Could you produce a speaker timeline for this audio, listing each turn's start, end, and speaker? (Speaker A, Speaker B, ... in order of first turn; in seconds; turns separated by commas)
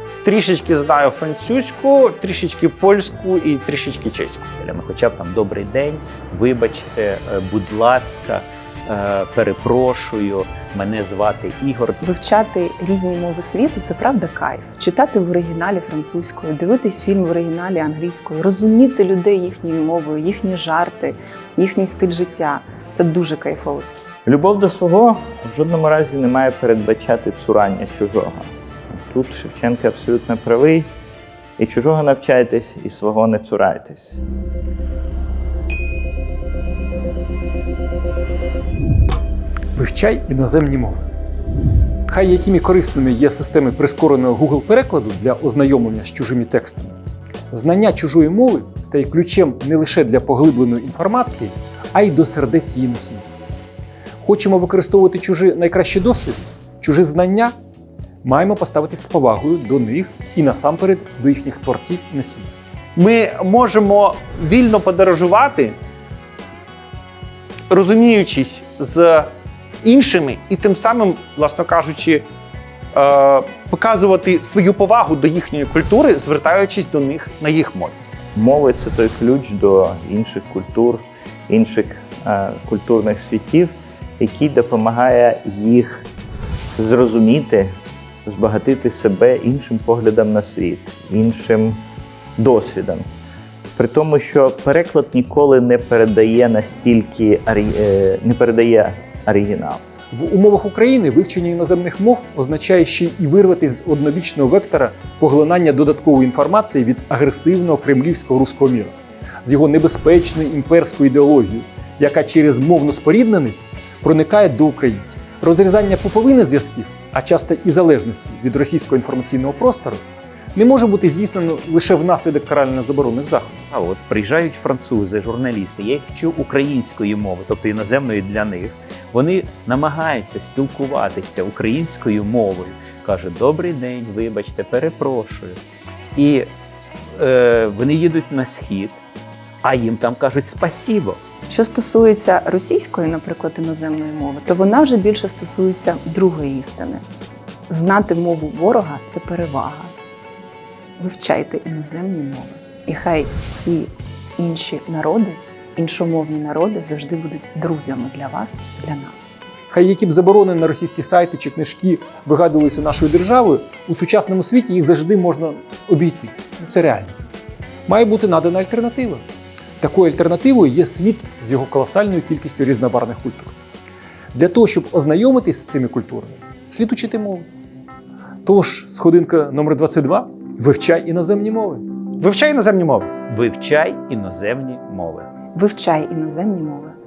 Speaker A: 0.2-4.5, Speaker B: 4.6-12.0, Speaker C: 12.0-23.9, Speaker D: 24.2-28.5, Speaker D: 29.1-30.9, Speaker D: 31.6-34.2, Speaker E: 39.8-41.1, Speaker E: 42.1-47.0, Speaker E: 47.5-53.3, Speaker E: 54.2-57.5, Speaker E: 58.2-62.5, Speaker A: 63.0-65.8, Speaker A: 67.7-69.3, Speaker A: 69.8-72.2, Speaker A: 72.9-78.0, Speaker D: 78.3-86.1, Speaker D: 86.8-87.7, Speaker D: 88.2-91.8, Speaker D: 92.4-93.0, Speaker D: 93.8-99.8, Speaker E: 100.1-123.6, Speaker B: 123.7-135.6, Speaker B: 136.1-136.5, Speaker B: 137.1-139.0, Speaker B: 139.6-141.2, Speaker C: 141.5-147.0, Speaker C: 147.7-149.9, Speaker C: 151.0-159.3, Speaker E: 159.7-169.2, Speaker E: 169.8-173.5, Speaker E: 174.3-177.5, Speaker E: 178.4-181.8, Speaker A: 182.2-183.1, Speaker B: 183.3-185.3, Speaker C: 185.5-186.9